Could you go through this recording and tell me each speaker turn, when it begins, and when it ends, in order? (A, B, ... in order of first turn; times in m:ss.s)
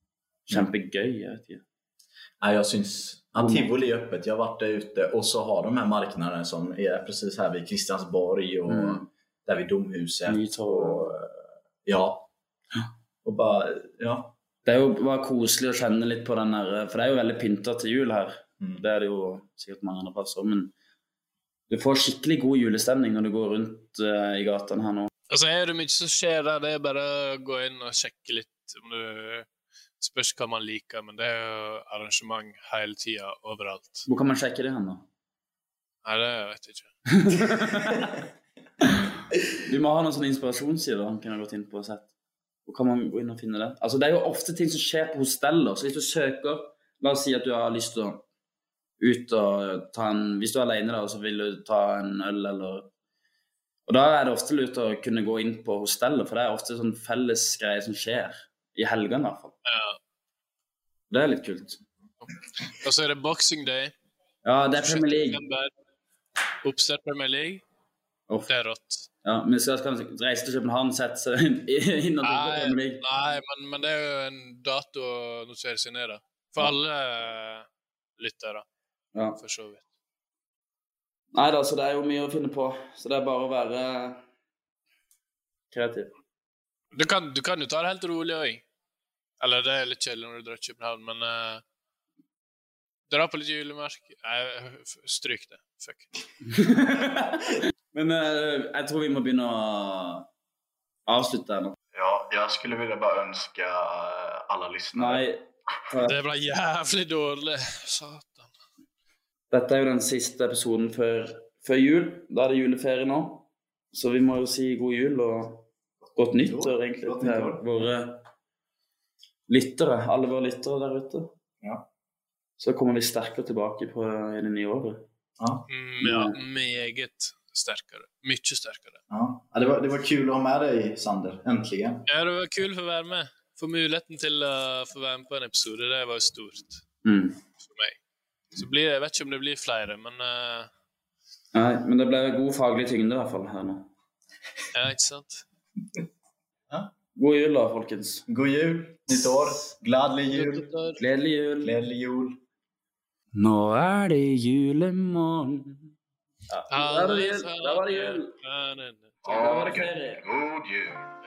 0:00.5-0:01.6 A
0:02.4-0:12.3 B
0:03.4-0:03.7 A
0:08.7-0:09.1 A
0:10.3-0:11.1 A
0:13.2-0:14.4 B
0:14.6-0:20.7 A
0:18.6-0:18.8 B
0:21.7-0:25.1 A
0:25.3-0:29.5 C
0:30.0-0:34.1 C
0:34.1-0:35.1 A
0:36.0-0:37.6 C
0:37.1-0:38.1 A
0:38.8-0:42.1 A
0:42.7-0:48.2 A
0:49.0-0:52.9 A
0:53.9-0:59.6 A
0:59.7-1:00.0 C
1:01.1-1:01.8 A
1:02.3-1:03.9 C
1:04.4-1:05.4 A
1:04.8-1:05.7 C
1:06.6-1:07.6 C
1:08.5-1:09.1 C
1:09.2-1:13.0 A
1:12.2-1:17.7 C
1:18.2-1:18.6 C
1:19.4-1:19.8 C
1:21.3-1:24.2 A
1:25.7-1:26.1 A
1:26.9-1:28.6 C
1:29.4-1:31.6 C
1:33.1-1:36.1 C
1:36.4-1:40.3 A
1:41.1-1:41.8 A
1:41.9-1:45.2 B
1:45.0-1:46.2 A
1:46.0-1:48.5 C
1:49.5-1:58.3 A
1:56.1-1:57.7 B
1:59.5-2:01.4 A
2:01.6-2:01.9 B
2:02.6-2:05.1 A
2:05.4-2:05.7 B
2:05.7-2:09.0 C
2:06.0-2:06.4 A
2:09.1-2:12.1 B
2:12.1-2:16.8 C
2:17.0-2:17.4 A
2:17.6-2:18.0 C
2:18.6-2:20.7 C
2:21.5-2:23.9 A
2:24.7-2:25.4 C
2:27.2-2:28.3 A
2:28.3-2:30.7 B
2:30.3-2:31.0 C
2:31.0-2:31.8 A
2:31.6-2:32.4 B
2:33.4-2:35.9 A
2:36.5-2:38.4 A
2:36.7-2:39.2 C
2:39.2-2:41.2 B
2:39.2-2:40.3 A